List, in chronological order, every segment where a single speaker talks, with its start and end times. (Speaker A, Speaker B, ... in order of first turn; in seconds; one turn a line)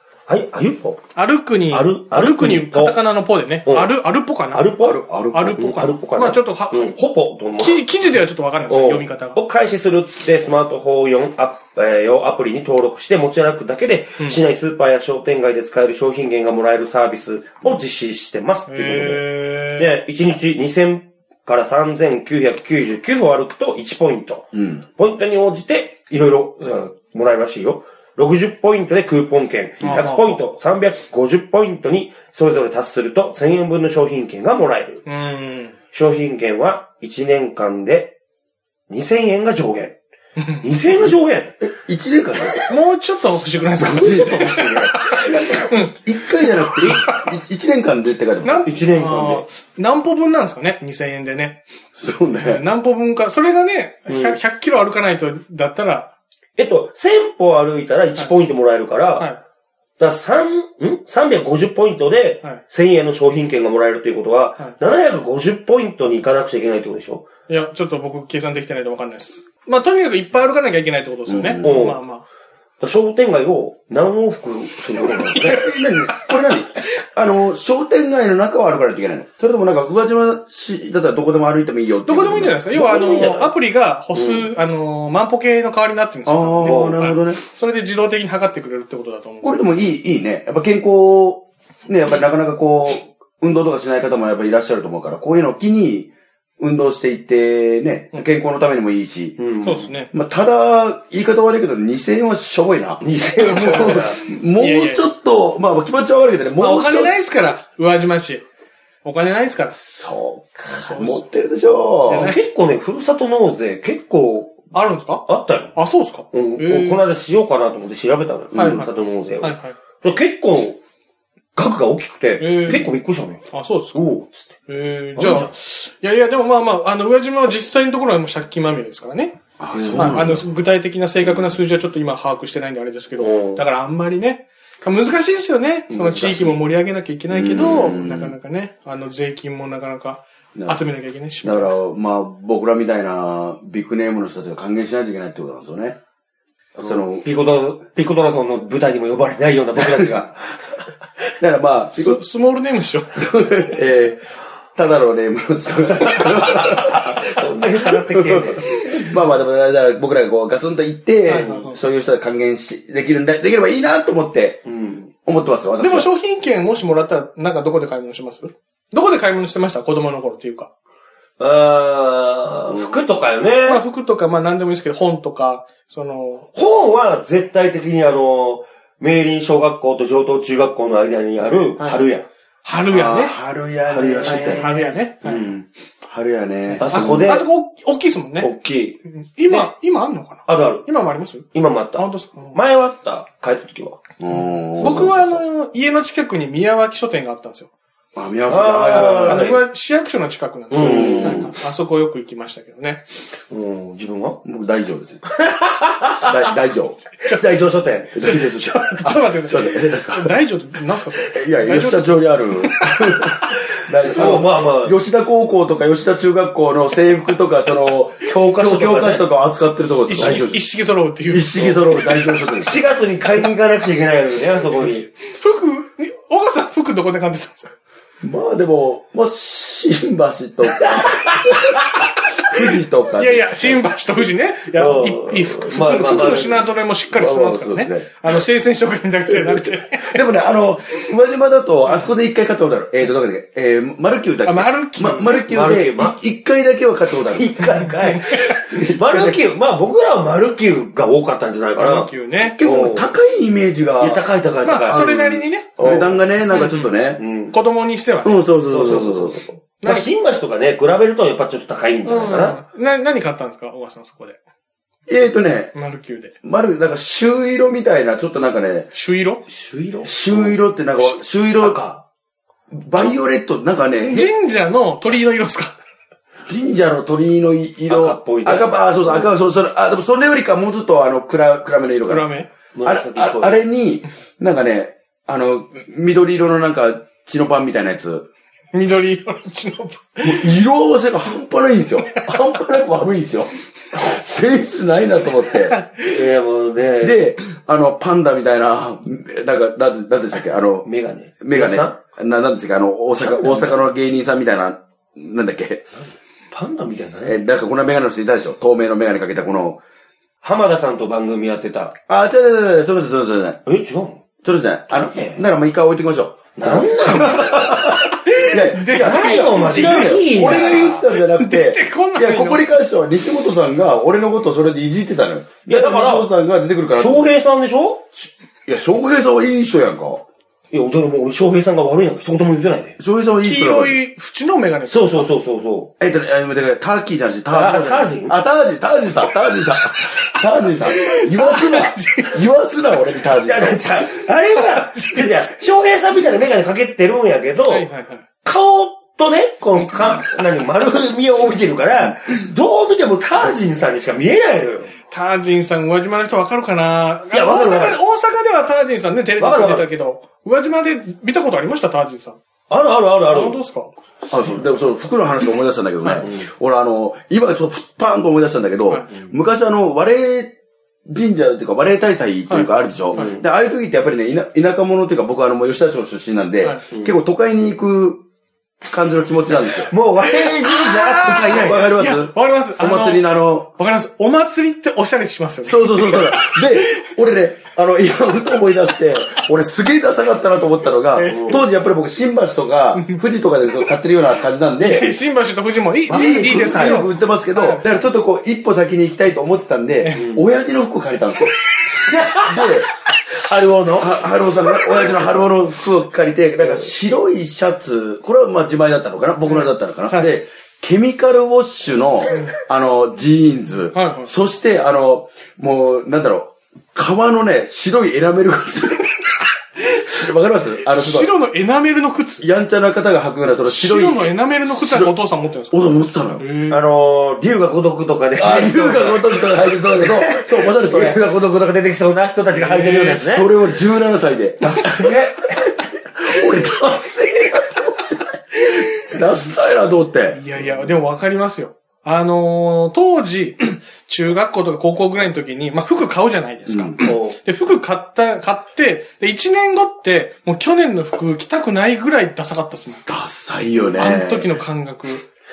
Speaker A: 0.3-1.0
Speaker B: 1.1-4.7
Speaker A: 1.7-3.0
Speaker A: 3.6-3.9
Speaker A: 4.5-5.0
Speaker C: 4.8-5.6
Speaker B: 5.3-7.0
Speaker A: 5.5-7.8
Speaker B: 7.6-9.4
Speaker A: 8.7-35.0
Speaker B: 18.7-19.9
Speaker C: 24.5-24.8
Speaker B: 29.8-30.4
Speaker B: 35.0-35.7
Speaker A: 35.9-38.1
Speaker A: 38.9-40.0
Speaker B: 40.4-40.7
Speaker A: 40.6-41.5
Speaker C: 41.6-42.6
Speaker B: 42.6-45.9
Speaker C: 43.8-48.7
Speaker B: 46.6-47.3
Speaker B: 48.4-51.6
Speaker A: 48.6-49.4
Speaker C: 52.0-52.6
Speaker B: 52.4-56.1
Speaker A: 54.1-54.4
Speaker A: 56.6-59.3
Speaker A: 60.0-67.3
Speaker B: 67.5-72.2
Speaker C: 71.3-71.9
Speaker A: 71.6-72.0
Speaker A: 72.8-75.7
Speaker B: 75.3-76.3
Speaker C: 75.3-83.1
Speaker B: 82.0-89.6
Speaker A: 82.7-83.5
Speaker A: 84.1-84.5
Speaker C: 86.2-87.4
Speaker A: 86.6-87.0
Speaker C: 89.4-99.4
Speaker A: 99.4-99.9
Speaker B: 99.6-100.1
Speaker C: 100.1-107.1
Speaker A: 103.0-104.2
Speaker B: 103.5-104.1
Speaker B: 104.6-105.0
Speaker B: 106.6-108.4
Speaker B: 109.0-109.8
Speaker C: 109.7-112.3
Speaker B: 110.8-111.2
Speaker B: 112.1-112.4
Speaker A: 112.1-114.6
Speaker B: 114.7-115.2
Speaker A: 115.2-115.7
Speaker B: 115.7-117.0
Speaker A: 116.3-120.8
Speaker C: 118.5-118.8
Speaker B: 118.5-119.8
Speaker A: 121.5-123.4
Speaker B: 122.4-122.9
Speaker B: 123.5-129.4
Speaker A: 123.9-124.5
Speaker A: 125.2-125.5
Speaker C: 129.6-130.4
Speaker A: 129.7-130.3
Speaker B: 129.9-141.7
Speaker A: 133.2-133.6
Speaker A: 135.9-136.6
Speaker C: 137.3-138.3
Speaker C: 140.5-140.8
Speaker C: 141.4-146.0
Speaker A: 146.8-150.6
Speaker C: 146.8-147.2
Speaker C: 149.8-150.2
Speaker C: 151.4-152.2
Speaker B: 151.9-153.2
Speaker C: 153.1-154.2
Speaker C: 154.8-157.4
Speaker A: 156.2-158.7
Speaker C: 158.1-164.6
Speaker A: 161.3-161.7
Speaker B: 161.3-161.8
Speaker A: 164.6-165.1
Speaker C: 165.2-166.1
Speaker B: 165.8-170.7
Speaker A: 171.4-173.8
Speaker C: 172.7-173.0
Speaker B: 173.7-176.5
Speaker A: 176.5-182.3
Speaker B: 182.6-183.3
Speaker C: 182.9-187.3
Speaker A: 183.9-184.7
Speaker B: 184.2-185.4
Speaker A: 185.2-185.6
Speaker A: 186.8-187.4
Speaker B: 186.8-188.5
Speaker A: 188.4-189.7
Speaker B: 189.2-192.6
Speaker A: 190.5-190.8
Speaker A: 191.5-194.0
Speaker C: 194.2-195.4
Speaker B: 194.8-197.7
Speaker C: 198.1-199.6
Speaker A: 198.5-199.6
Speaker B: 198.9-203.0
Speaker A: 200.7-201.5
Speaker C: 200.7-201.5
Speaker A: 203.5-204.4
Speaker C: 204.4-205.2
Speaker A: 205.3-206.5
Speaker C: 206.2-207.0
Speaker A: 207.2-208.2
Speaker C: 208.1-210.4
Speaker B: 208.2-213.2
Speaker C: 211.3-220.6
Speaker A: 214.0-214.9
Speaker A: 218.2-219.3
Speaker B: 220.1-221.7
Speaker A: 220.2-220.4
Speaker C: 221.3-222.8
Speaker A: 221.6-225.1
Speaker B: 225.2-227.7
Speaker C: 228.2-233.8
Speaker A: 230.7-231.9
Speaker B: 233.1-240.2
Speaker A: 234.7-236.6
Speaker C: 236.0-236.6
Speaker C: 237.1-238.1
Speaker C: 239.3-247.8
Speaker B: 244.4-245.4
Speaker A: 245.4-246.2
Speaker A: 247.3-253.1
Speaker B: 247.9-248.4
Speaker C: 248.5-249.4
Speaker B: 251.8-252.6
Speaker C: 252.4-254.3
Speaker A: 254.0-256.2
Speaker B: 254.6-255.9
Speaker C: 254.9-257.2
Speaker B: 256.5-256.9
Speaker A: 257.2-257.5
Speaker B: 257.5-258.5
Speaker C: 258.2-259.4
Speaker A: 258.7-262.6
Speaker B: 259.8-260.1
Speaker B: 262.1-264.4
Speaker C: 265.1-265.7
Speaker B: 265.7-266.3
Speaker C: 266.4-268.9
Speaker B: 268.9-269.4
Speaker A: 269.5-272.0
Speaker C: 270.0-271.8
Speaker C: 272.7-274.3
Speaker B: 274.0-275.8
Speaker C: 276.5-282.3
Speaker A: 277.9-279.3
Speaker B: 282.1-282.5
Speaker A: 282.7-283.6
Speaker C: 282.8-288.3
Speaker B: 288.7-290.5
Speaker C: 290.2-295.8
Speaker B: 295.6-296.1
Speaker A: 296.0-297.2
Speaker C: 297.0-300.9
Speaker A: 300.8-302.0
Speaker C: 301.4-305.9
Speaker A: 303.2-303.8
Speaker A: 306.5-307.4
Speaker C: 307.2-309.8
Speaker A: 310.4-311.9
Speaker C: 312.1-313.6
Speaker A: 313.6-314.2
Speaker C: 314.4-327.3
Speaker A: 314.9-315.4
Speaker A: 316.6-318.0
Speaker B: 317.4-322.8
Speaker A: 318.9-321.0
Speaker A: 325.6-326.3
Speaker A: 327.0-328.0
Speaker C: 328.2-330.2
Speaker A: 330.7-333.0
Speaker C: 333.0-334.0
Speaker B: 333.4-335.3
Speaker A: 334.9-335.9
Speaker C: 336.0-343.8
Speaker A: 337.5-338.4
Speaker B: 340.9-342.4
Speaker A: 343.4-347.9
Speaker B: 344.6-345.3
Speaker B: 347.7-348.2
Speaker A: 348.4-354.9
Speaker B: 355.1-362.4
Speaker A: 357.3-358.0
Speaker A: 359.4-359.9
Speaker A: 362.7-363.6
Speaker B: 363.3-363.9
Speaker C: 364.3-370.5
Speaker C: 371.1-378.2
Speaker B: 372.5-373.3
Speaker A: 373.1-373.4
Speaker A: 376.9-377.1
Speaker C: 378.9-379.9
Speaker A: 379.9-381.9
Speaker B: 380.2-387.1
Speaker C: 381.3-383.7
Speaker C: 385.6-395.1
Speaker B: 391.1-391.6
Speaker A: 391.2-391.6
Speaker B: 392.9-393.2
Speaker B: 394.8-397.9
Speaker A: 396.1-397.1
Speaker C: 396.1-401.5
Speaker B: 400.0-400.3
Speaker A: 400.1-400.4
Speaker A: 402.0-402.7
Speaker C: 402.3-402.9
Speaker A: 403.3-404.2
Speaker C: 404.0-419.3
Speaker A: 404.8-405.4
Speaker B: 409.4-410.3
Speaker B: 413.9-414.3
Speaker C: 419.9-421.3
Speaker B: 420.9-422.5
Speaker C: 422.4-425.1
Speaker B: 423.6-426.8
Speaker C: 425.7-426.4
Speaker A: 426.7-433.5
Speaker C: 428.4-431.2
Speaker B: 432.6-433.2
Speaker C: 433.1-435.2
Speaker A: 434.6-435.6
Speaker C: 436.2-440.4
Speaker B: 440.3-453.1
Speaker C: 446.7-447.0
Speaker A: 447.0-447.4
Speaker C: 453.1-454.5
Speaker B: 453.9-455.3